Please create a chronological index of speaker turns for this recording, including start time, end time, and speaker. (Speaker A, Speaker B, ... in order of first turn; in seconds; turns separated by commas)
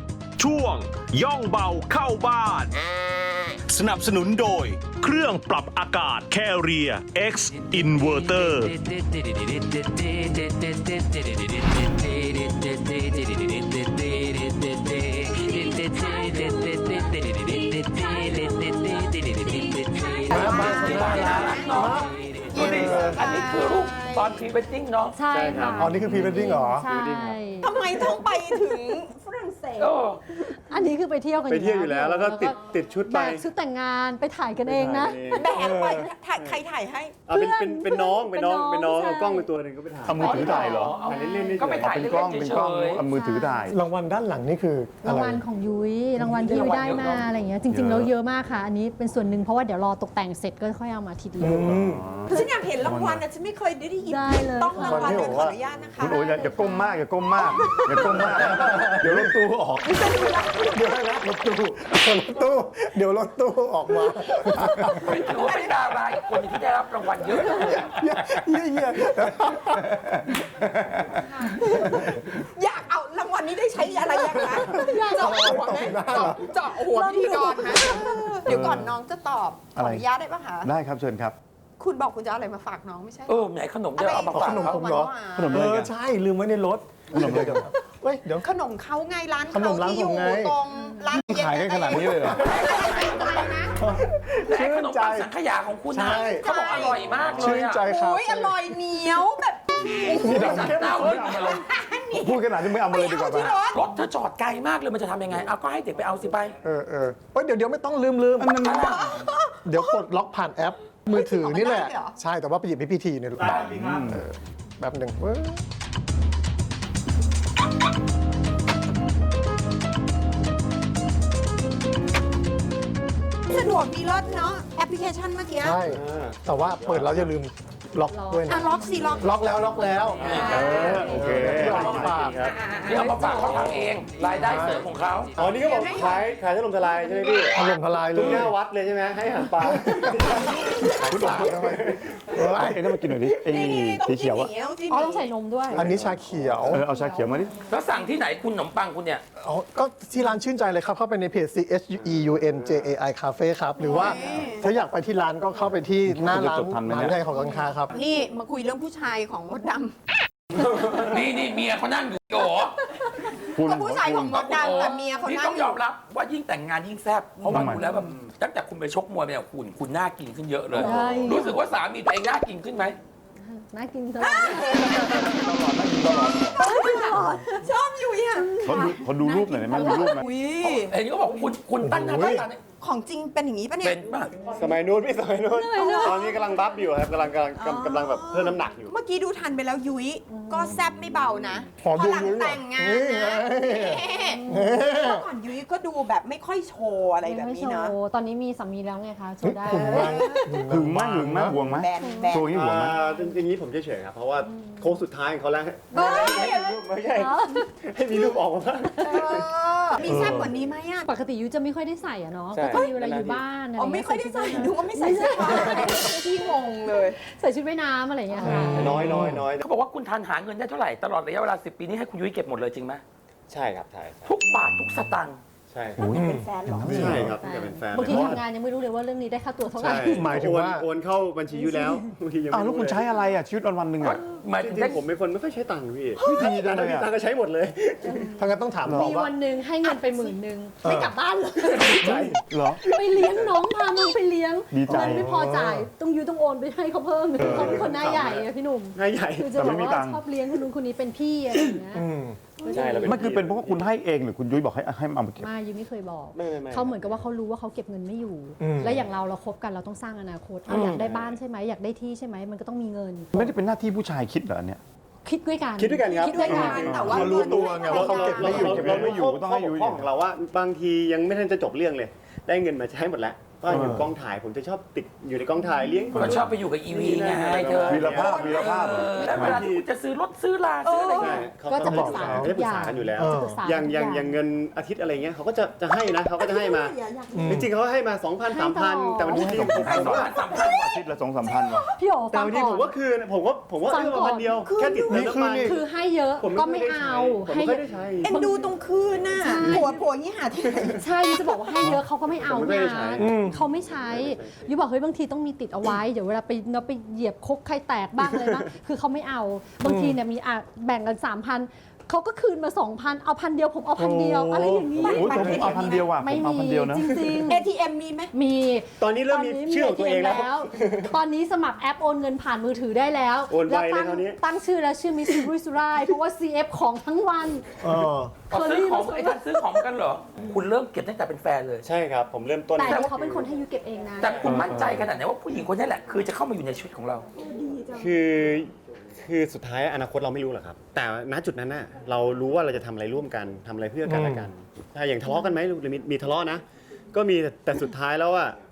Speaker A: 0.4-2.7, Speaker A: 3.7-8.8, Speaker B: 16.0-17.0, Speaker B: 17.9-18.7, Speaker B: 19.5-21.9, Speaker C: 20.3-23.3, Speaker D: 20.3-25.2, Speaker B: 22.5-24.4, Speaker E: 25.1-27.7, Speaker F: 25.3-27.6, Speaker C: 25.8-26.9, Speaker B: 27.6-29.9, Speaker D: 29.8-30.2, Speaker E: 30.3-35.5, Speaker F: 31.5-33.5, Speaker F: 34.6-35.5, Speaker B: 35.3-37.2, Speaker C: 35.5-36.1, Speaker F: 37.2-42.2, Speaker E: 37.3-39.5, Speaker G: 40.0-41.0, Speaker E: 40.1-41.5, Speaker D: 40.2-43.0, Speaker G: 41.7-43.8, Speaker E: 43.1-43.8, Speaker C: 43.7-45.4, Speaker E: 45.0-51.7, Speaker C: 46.2-46.7, Speaker D: 46.4-47.3, Speaker G: 47.7-48.1, Speaker C: 51.4-52.0, Speaker G: 51.4-53.2, Speaker B: 52.2-56.5, Speaker E: 54.0-57.0, Speaker C: 54.8-55.6, Speaker G: 56.0-59.9, Speaker B: 57.4-58.0, Speaker C: 57.9-59.3, Speaker B: 59.8-60.8, Speaker C: 60.0-65.2, Speaker D: 64.9-68.4, Speaker B: 65.4-65.8, Speaker C: 67.3-70.3, Speaker B: 71.2-80.7, Speaker C: 71.7-72.3, Speaker C: 74.4-76.4, Speaker E: 74.9-75.4, Speaker E: 76.9-78.2, Speaker G: 78.5-78.9, Speaker G: 79.8-80.0, Speaker G: 80.6-81.4, Speaker B: 81.8-83.4, Speaker D: 83.3-84.8, Speaker B: 84.0-85.6, Speaker C: 84.3-88.5, Speaker G: 85.3-85.9, Speaker G: 87.1-87.7, Speaker B: 88.4-93.8, Speaker C: 89.5-90.6, Speaker G: 91.1-92.5, Speaker D: 92.3-93.7, Speaker C: 93.8-95.3, Speaker D: 94.4-97.8, Speaker C: 95.9-96.5, Speaker B: 96.4-97.2, Speaker G: 97.2-97.5, Speaker C: 97.2-98.7, Speaker B: 97.8-100.6, Speaker G: 100.0-103.6, Speaker C: 100.1-101.1, Speaker D: 100.2-101.6, Speaker B: 101.2-103.8, Speaker D: 103.2-106.5, Speaker C: 106.6-108.7, Speaker G: 108.4-109.3, Speaker D: 108.6-109.1, Speaker B: 109.0-109.9, Speaker C: 109.6-115.6, Speaker B: 111.1-112.2, Speaker D: 113.4-113.8, Speaker G: 113.5-114.2, Speaker B: 123.5-125.8, Speaker C: 125.6-132.4, Speaker F: 125.8-126.4, Speaker E: 128.1-131.8, Speaker B: 128.5-129.6, Speaker D: 130.2-130.8, Speaker F: 130.3-132.6, Speaker B: 130.4-130.9, Speaker G: 130.6-131.9, Speaker D: 131.7-132.2, Speaker B: 132.4-133.2, Speaker D: 132.7-135.3, Speaker F: 133.1-133.8, Speaker C: 134.3-134.9, Speaker F: 135.3-142.1, Speaker B: 135.5-136.2, Speaker B: 137.1-137.4, Speaker C: 137.5-138.5, Speaker C: 139.6-142.9, Speaker G: 141.0-141.7, Speaker G: 142.4-144.5, Speaker B: 143.2-145.3, Speaker E: 144.9-145.9, Speaker C: 145.7-146.8, Speaker F: 145.8-146.2, Speaker G: 146.3-147.7, Speaker D: 147.7-149.2, Speaker C: 149.4-157.9, Speaker B: 153.8-154.6, Speaker G: 156.0-157.2, Speaker E: 157.3-157.7, Speaker B: 157.9-159.9, Speaker D: 160.6-162.9, Speaker B: 163.5-165.8, Speaker G: 163.5-164.7, Speaker D: 164.3-173.0, Speaker E: 164.8-165.1, Speaker G: 167.5-167.9, Speaker E: 170.7-171.6, Speaker F: 170.8-171.2, Speaker E: 173.4-175.4, Speaker D: 174.5-175.1, Speaker G: 174.6-176.6, Speaker B: 176.5-180.9, Speaker E: 176.6-177.6, Speaker E: 178.3-178.9, Speaker G: 178.6-180.2, Speaker D: 180.6-182.6, Speaker C: 181.8-182.5, Speaker B: 182.8-184.0, Speaker D: 183.8-184.7, Speaker F: 184.5-188.9, Speaker E: 185.5-186.4, Speaker B: 185.7-186.8, Speaker B: 187.5-197.9, Speaker E: 190.3-190.8, Speaker C: 191.8-195.2, Speaker E: 194.4-194.8, Speaker E: 197.2-200.4, Speaker C: 199.4-201.6, Speaker B: 199.7-200.7, Speaker G: 200.7-203.0, Speaker B: 201.4-202.6, Speaker E: 202.0-202.3, Speaker F: 202.5-209.5, Speaker E: 205.9-207.7, Speaker B: 205.9-206.8, Speaker B: 208.9-211.1, Speaker E: 209.0-209.4, Speaker C: 210.0-210.5, Speaker E: 211.1-216.2, Speaker F: 212.5-213.4, Speaker B: 212.7-213.0, Speaker B: 213.7-217.2, Speaker E: 217.2-218.8, Speaker C: 218.4-219.4, Speaker F: 218.4-219.7, Speaker D: 219.6-223.0, Speaker F: 223.5-224.4, Speaker D: 224.2-225.4, Speaker F: 225.7-226.2, Speaker G: 226.0-227.4, Speaker C: 226.1-227.3, Speaker B: 226.2-226.8, Speaker F: 226.8-228.4, Speaker E: 227.4-230.3, Speaker G: 228.1-228.3, Speaker F: 229.8-233.1, Speaker C: 229.8-230.8, Speaker G: 232.5-234.2, Speaker D: 234.0-235.0, Speaker F: 234.6-238.3, Speaker G: 236.2-237.1, Speaker E: 238.0-240.8, Speaker C: 238.4-239.3, Speaker G: 238.8-239.1, Speaker C: 240.8-241.1, Speaker B: 241.1-241.7, Speaker E: 241.6-252.1, Speaker F: 241.8-242.3, Speaker G: 242.0-242.8, Speaker F: 243.0-243.5, Speaker G: 244.7-245.3, Speaker C: 244.9-245.9, Speaker G: 247.4-248.3, Speaker F: 247.4-249.6, Speaker G: 249.5-250.2, Speaker C: 251.9-252.4, Speaker E: 252.6-253.3, Speaker F: 252.7-253.9, Speaker G: 253.0-255.5, Speaker E: 255.4-263.5, Speaker F: 256.3-257.3, Speaker C: 258.6-259.0, Speaker D: 260.7-261.0, Speaker F: 260.9-261.4, Speaker G: 263.3-264.8, Speaker E: 265.2-267.1, Speaker F: 265.8-279.9, Speaker B: 266.0-268.6, Speaker G: 266.6-267.1, Speaker C: 267.0-269.2, Speaker E: 267.8-268.6, Speaker G: 268.3-270.1, Speaker C: 273.7-274.0, Speaker G: 273.7-274.1, Speaker G: 276.1-276.5, Speaker D: 276.1-281.5, Speaker G: 277.9-279.7, Speaker B: 280.8-281.5, Speaker F: 281.1-287.0, Speaker E: 281.3-284.4, Speaker C: 281.8-282.5, Speaker C: 283.1-283.5, Speaker B: 286.4-287.5, Speaker C: 287.3-287.7, Speaker F: 287.5-290.4, Speaker E: 288.5-290.1, Speaker G: 289.3-291.9, Speaker D: 289.8-291.0, Speaker E: 292.0-293.0, Speaker F: 292.3-295.8, Speaker E: 293.8-294.6, Speaker B: 294.6-295.3, Speaker C: 295.1-295.7, Speaker E: 295.4-298.6, Speaker F: 296.4-298.4, Speaker B: 298.2-301.7, Speaker E: 299.4-300.0, Speaker F: 299.6-299.9, Speaker E: 300.9-317.6, Speaker F: 301.8-304.6, Speaker C: 303.2-303.6, Speaker C: 309.9-310.2, Speaker G: 314.0-317.1, Speaker F: 314.6-316.0, Speaker B: 315.0-316.1, Speaker B: 317.5-318.3, Speaker E: 318.3-327.6, Speaker F: 319.0-321.1, Speaker F: 323.5-324.4, Speaker C: 327.8-328.3, Speaker E: 328.5-329.8, Speaker D: 328.5-331.9, Speaker F: 331.8-333.5, Speaker E: 332.8-334.6, Speaker D: 332.9-333.1, Speaker D: 334.2-337.3, Speaker G: 334.5-335.0, Speaker B: 337.6-338.1, Speaker F: 337.9-348.6, Speaker C: 344.0-344.5, Speaker E: 345.3-345.6